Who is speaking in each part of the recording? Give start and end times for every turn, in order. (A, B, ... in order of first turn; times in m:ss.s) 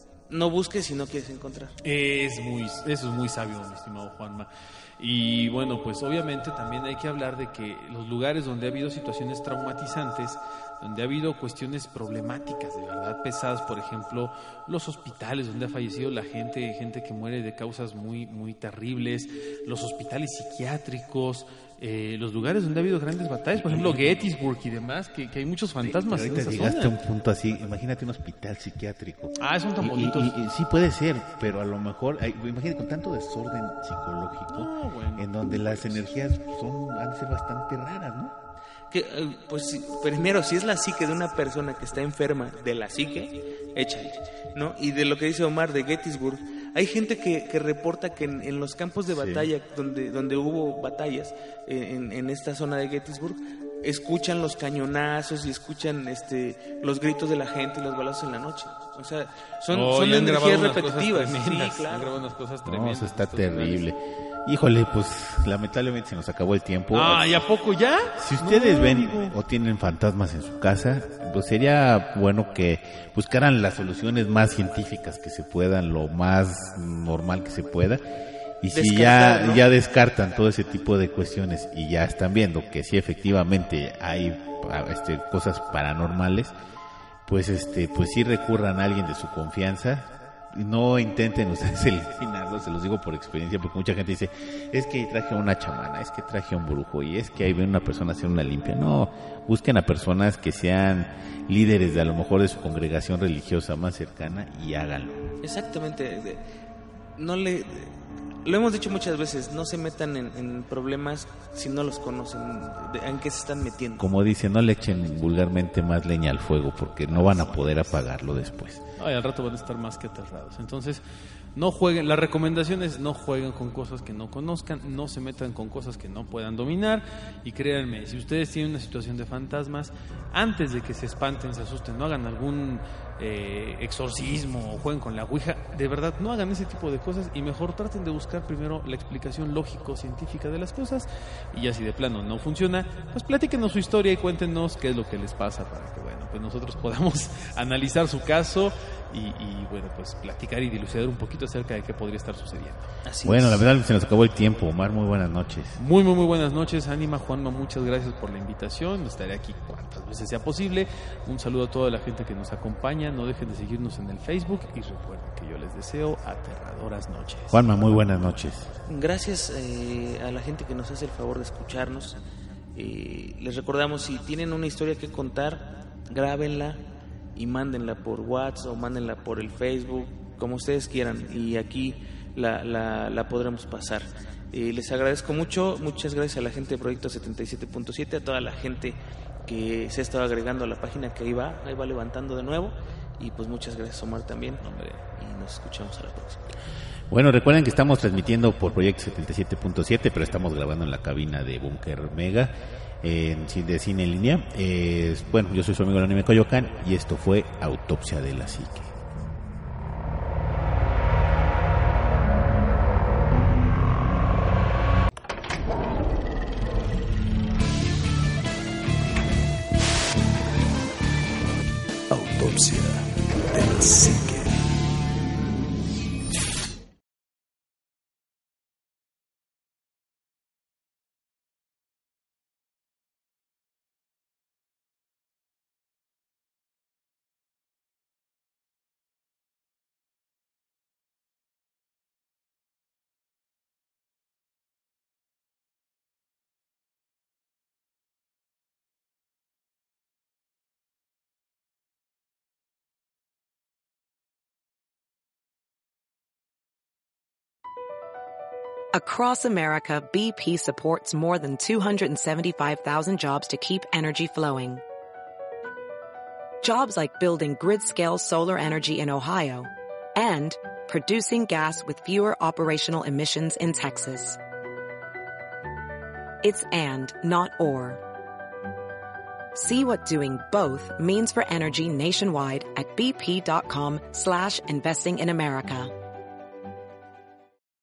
0:00.3-0:01.7 A
0:01.8-0:26.9 B
0:23.5-0:24.3 C
0:25.8-0:38.3 C
0:29.4-0:30.4 B
0:34.5-0:36.1 B
0:38.9-1:02.1 A
0:49.1-0:49.5 C
0:59.7-1:03.8 B
1:02.6-1:07.4 C
1:06.9-1:09.4 B
1:08.2-1:18.0 C
1:18.6-1:26.5 C
1:18.7-1:19.6 A
1:27.3-1:45.2 C
1:45.4-1:46.4 A
1:47.2-1:54.0 A
1:54.0-1:58.8 C
1:57.1-1:57.5 A
1:59.0-2:01.0 B
2:01.6-2:32.9 B
2:33.0-2:33.7 A
2:33.2-2:35.8 C
2:35.8-2:47.6 B
2:47.5-2:48.7 C
2:48.9-2:52.2 A
2:52.7-2:56.8 A
2:57.3-3:16.5 A
3:14.6-3:15.0 B
3:17.1-3:28.9 C
3:42.1-3:44.6 D
4:18.9-4:24.8 E
4:26.6-4:34.4 E
4:36.4-4:38.0 E
4:39.5-4:45.9 E